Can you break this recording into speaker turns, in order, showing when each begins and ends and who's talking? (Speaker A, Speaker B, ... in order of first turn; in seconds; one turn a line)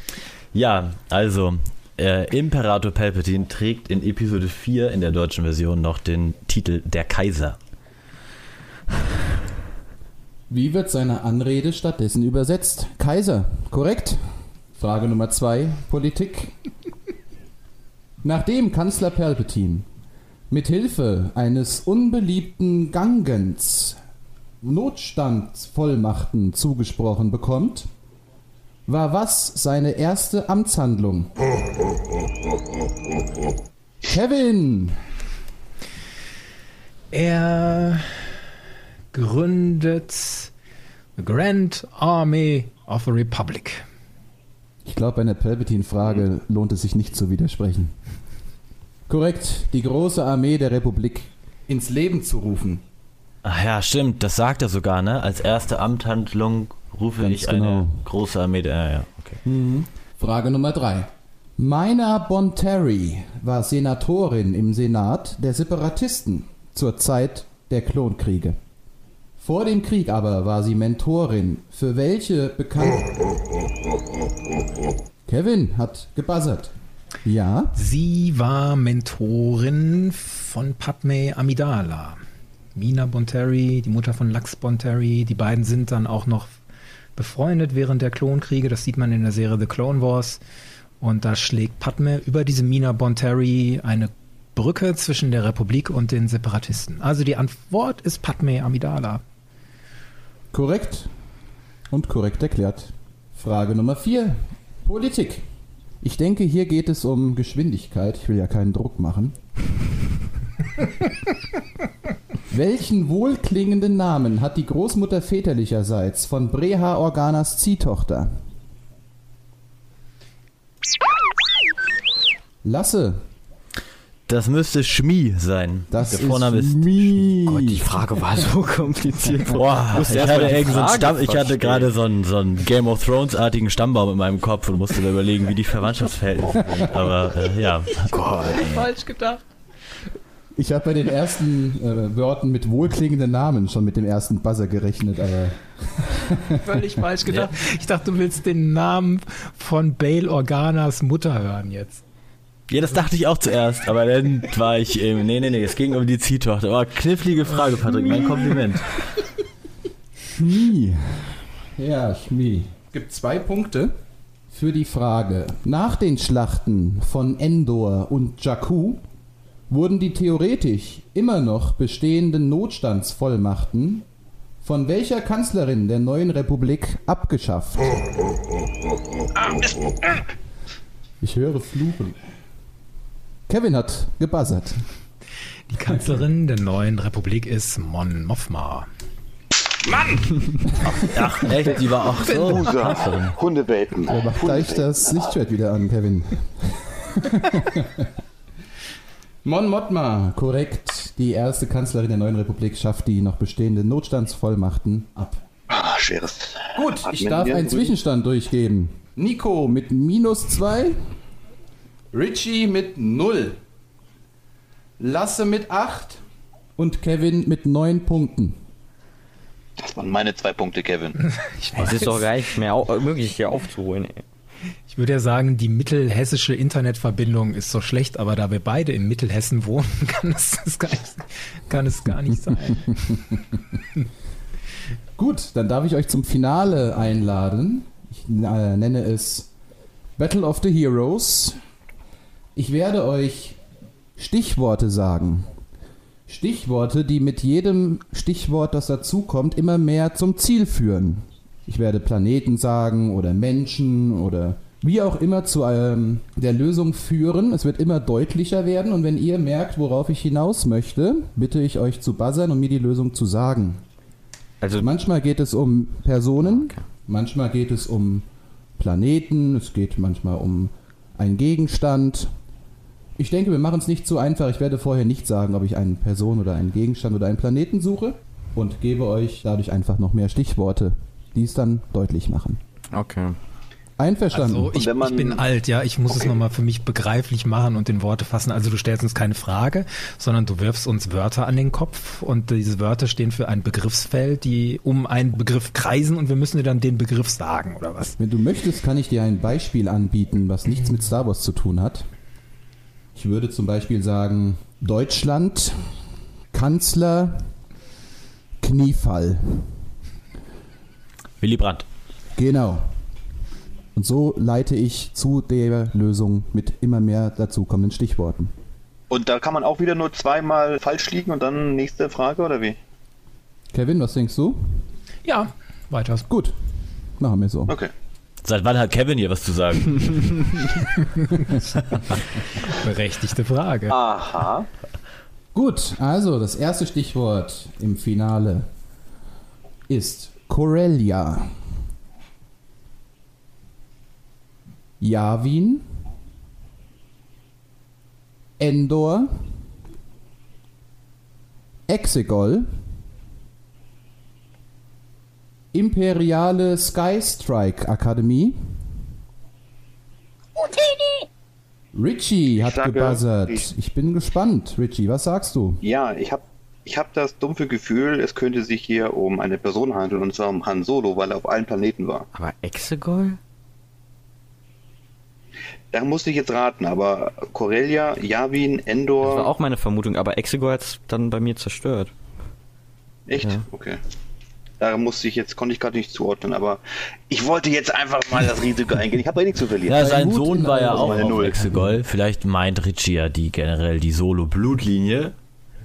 Speaker A: 0.5-7.6
Speaker B: 10.5-16.5
Speaker B: 18.2-19.9
Speaker B: 20.5-24.0
Speaker B: 24.6-27.9
Speaker B: 28.9-31.3
Speaker B: 34.0-35.0
Speaker C: 37.1-38.4
Speaker C: 39.1-40.5
Speaker C: 41.2-43.8
Speaker B: 44.8-47.9
Speaker B: 49.1-52.8
Speaker A: 53.4-59.2
Speaker B: 57.2-58.0
Speaker B: 59.4-68.6
Speaker B: 69.4-73.2
Speaker B: 75.2-76.7
Speaker B: 77.2-77.7
Speaker C: 77.7-82.2
Speaker C: 82.7-86.6
Speaker C: 87.2-90.4
Speaker C: 91.0-99.2
Speaker B: 100.5-101.1
Speaker B: 101.9-105.4
Speaker B: 106.0-109.3
Speaker B: 112.5-118.4
Speaker B: 122.6-123.2
Speaker A: 124.3-126.9
Speaker B: 125.9-127.8
Speaker D: 127.5-131.9
Speaker A: 129.5-138.8
Speaker B: 136.6-136.9
Speaker C: 137.9-139.4
Speaker B: 140.6-146.6
Speaker C: 146.6-152.0
Speaker A: 147.3-147.5
Speaker A: 152.7-159.0
Speaker C: 158.1-158.4
Speaker B: 160.2-163.9
Speaker B: 164.5-169.0
Speaker B: 169.7-174.1
Speaker B: 174.6-178.0
Speaker E: 179.4-180.2
Speaker B: 181.2-182.2
Speaker B: 183.5-184.8
Speaker C: 185.7-188.9
Speaker E: 189.9-190.3
Speaker A: 190.9-193.3
Speaker E: 192.2-195.2
Speaker C: 192.4-192.9
Speaker B: 194.1-198.1
Speaker B: 199.4-205.4
Speaker E: 205.7-207.9
Speaker B: 206.7-211.1
Speaker B: 212.1-213.6
Speaker B: 215.0-216.2
Speaker B: 216.8-218.6
Speaker E: 219.8-221.2
Speaker C: 221.4-222.2
Speaker D: 221.8-224.2
Speaker C: 224.9-233.0
Speaker B: 235.2-239.5
Speaker B: 240.2-241.6
Speaker B: 242.6-243.6
Speaker B: 244.2-245.5
Speaker B: 246.3-263.8
Speaker D: 264.6-264.9
Speaker B: 264.8-268.2
Speaker D: 266.5-266.8
Speaker B: 268.8-272.3
Speaker B: 273.2-282.6
Speaker D: 282.9-283.4
Speaker B: 284.0-284.8
Speaker C: 284.3-298.2
Speaker E: 284.7-285.4
Speaker B: 298.2-302.1
Speaker B: 303.1-306.0
Speaker B: 306.5-307.5
Speaker B: 308.6-309.8
Speaker A: 311.4-311.8
Speaker B: 312.4-312.9
Speaker B: 313.9-318.5
Speaker E: 319.1-322.8
Speaker B: 323.7-324.9
Speaker C: 325.2-326.3
Speaker B: 326.3-326.6
Speaker B: 327.2-327.8
Speaker A: 328.4-330.8
Speaker A: 331.5-332.0
Speaker C: 332.6-334.0
Speaker E: 333.9-334.7
Speaker B: 335.5-338.7
Speaker B: 339.9-341.5
Speaker B: 345.0-345.9
Speaker B: 348.6-349.6
Speaker B: 351.9-352.7
Speaker B: 355.7-358.8
Speaker B: 361.9-365.8
Speaker E: 362.6-363.6
Speaker E: 365.8-372.3
Speaker D: 372.3-373.4
Speaker E: 375.9-379.5
Speaker D: 379.2-382.1
Speaker E: 383.3-384.0
Speaker E: 384.8-391.7
Speaker A: 389.9-395.3
Speaker B: 389.9-391.9